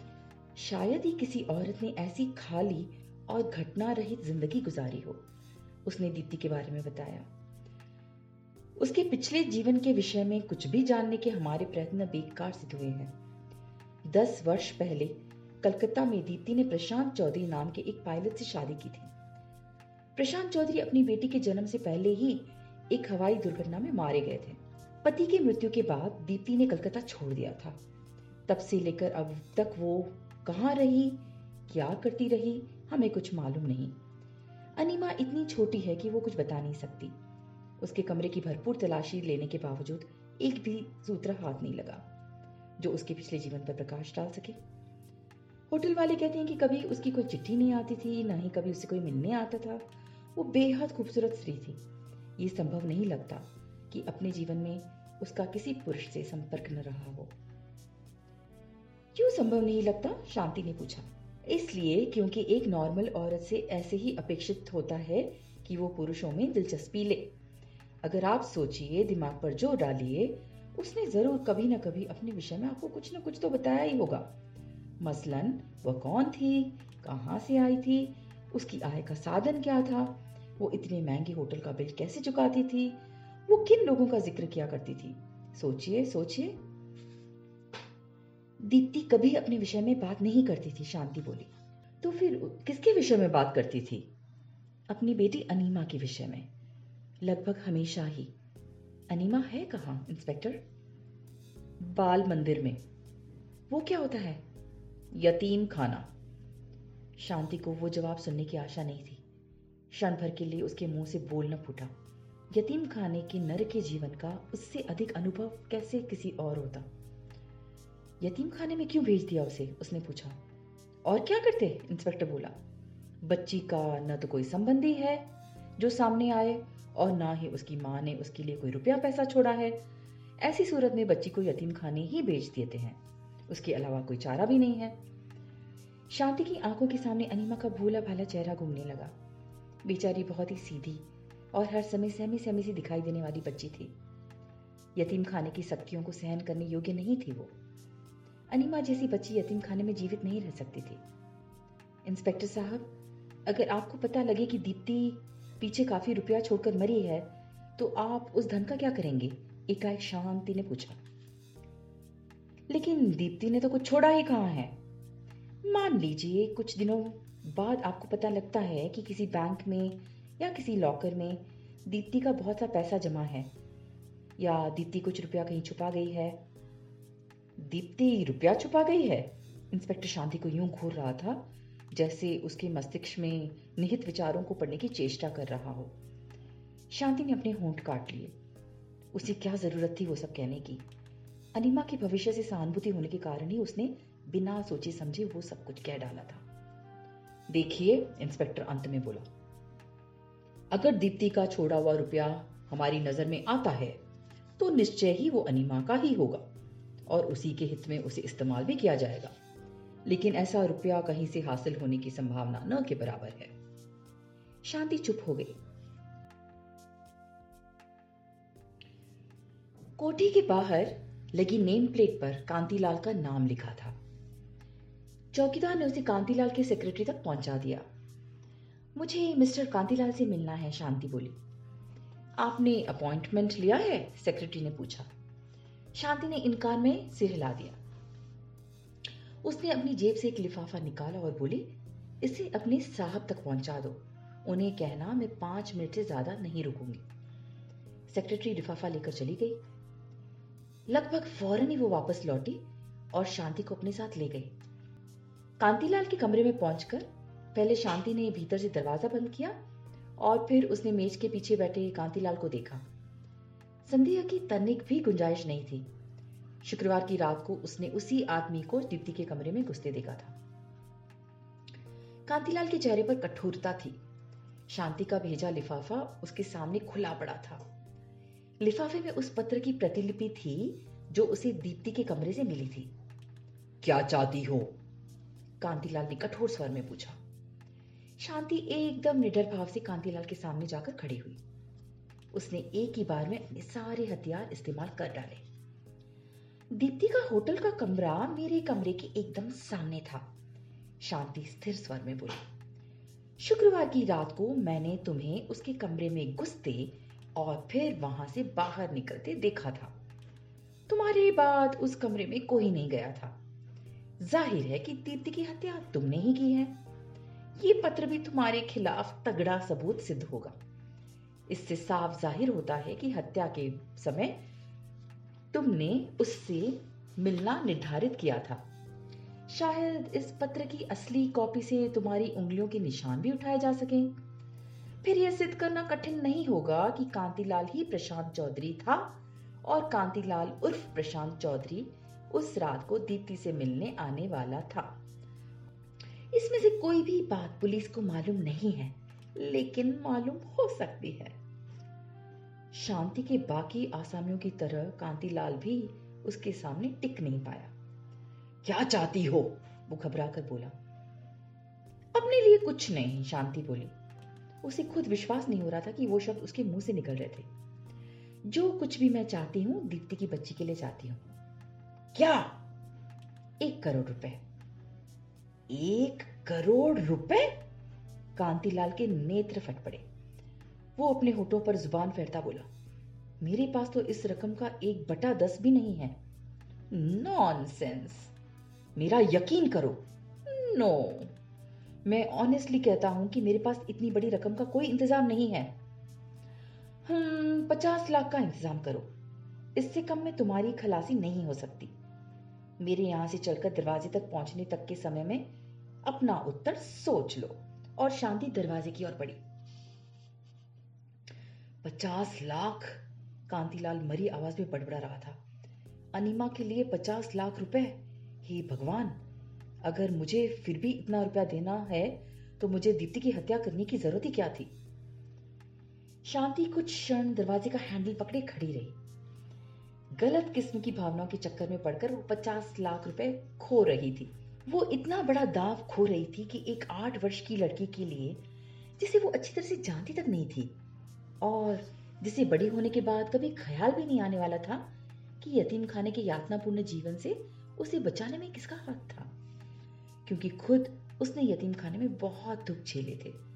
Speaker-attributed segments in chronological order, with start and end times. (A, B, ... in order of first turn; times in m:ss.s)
0:00.6-0:05.2 A
0:05.8-0:07.3 A
0:08.8-0:13.1 A
0:14.0-0:19.1 A
0:20.2-0:27.8 A
0:28.5-0:33.9 A
0:34.8-0:37.1 A
0:37.8-0:42.0 A
0:42.8-0:44.6 A
0:45.7-0:49.8 A
0:50.4-0:51.8 A
0:52.4-0:57.3 A
0:59.1-1:07.3 A
1:08.0-1:14.3 A
1:15.0-1:26.6 A
1:28.6-1:34.1 A
1:34.9-1:36.5 A
1:37.2-1:38.3 A
1:39.1-1:40.6 A
1:41.8-1:42.8 A
1:43.7-1:44.4 A
1:45.1-1:46.1 A
1:47.2-1:49.2 A
1:49.9-1:51.9 A
1:52.5-1:56.9 A
1:58.2-2:00.4 A
2:01.0-2:02.5 A
2:03.2-2:05.2 A
2:05.8-2:09.8 A
2:10.4-2:15.0 A
2:16.1-2:19.1 A
2:19.8-2:23.9 A
2:25.0-2:27.5 A
2:28.5-2:31.0 A
2:32.0-2:32.9 A
2:33.5-2:41.0 A
2:42.7-2:44.8 A
2:45.6-2:53.5 A
2:54.4-2:56.4 A
2:57.6-3:05.9 A
3:06.9-3:08.3 A
3:09.1-3:10.8 A
3:11.5-3:16.4 A
3:17.5-3:19.2 A
3:20.7-3:24.0 A
3:24.6-3:26.5 A
3:27.1-3:29.3 A
3:30.0-3:33.5 A
3:34.6-3:35.5 A
3:40.0-3:44.0 A
3:45.3-3:47.9 A
3:49.0-3:51.4 A
3:52.4-3:55.1 A
3:55.9-3:57.8 A
3:59.4-4:01.7 A
4:02.2-4:07.0 A
4:08.1-4:09.6 A
4:10.9-4:12.6 A
4:13.1-4:14.5 A
4:15.6-4:19.6 A
4:20.2-4:22.8 A
4:23.9-4:25.9 A
4:26.6-4:30.4 A
4:32.2-4:34.0 A
4:34.7-4:37.6 A
4:38.6-4:42.9 A
4:43.8-4:44.7 A
4:45.6-4:47.2 A
4:48.2-4:51.4 A
4:52.3-4:55.4 A
4:56.7-5:00.3 A
5:01.0-5:02.4 A
5:03.4-5:09.9 A
5:10.9-5:13.4 A
5:14.2-5:16.7 A
5:17.6-5:20.6 A
5:21.5-5:24.4 A
5:25.5-5:28.6 A
5:29.5-5:34.1 A
5:35.0-5:44.9 A
5:46.3-5:51.4 A
5:52.7-5:57.7 A
5:58.6-6:00.7 A
6:02.1-6:03.9 A
6:04.6-6:07.5 A
6:08.5-6:11.3 A
6:12.1-6:12.6 A
6:13.6-6:14.4 A
6:15.7-6:17.5 A
6:18.4-6:20.0 A
6:21.0-6:22.7 A
6:23.4-6:26.2 A
6:26.9-6:28.3 A
6:29.0-6:31.3 A
6:32.0-6:35.7 A
6:37.0-6:39.1 A
6:39.8-6:41.9 A
6:42.8-6:45.4 A
6:46.0-6:49.4 A
6:51.8-6:55.4 A
6:56.1-6:59.2 A
6:59.8-7:04.7 A
7:06.2-7:09.0 A
7:10.2-7:18.4 A
7:19.0-7:20.7 A
7:21.4-7:24.8 A
7:25.4-7:29.3 A
7:30.2-7:33.4 A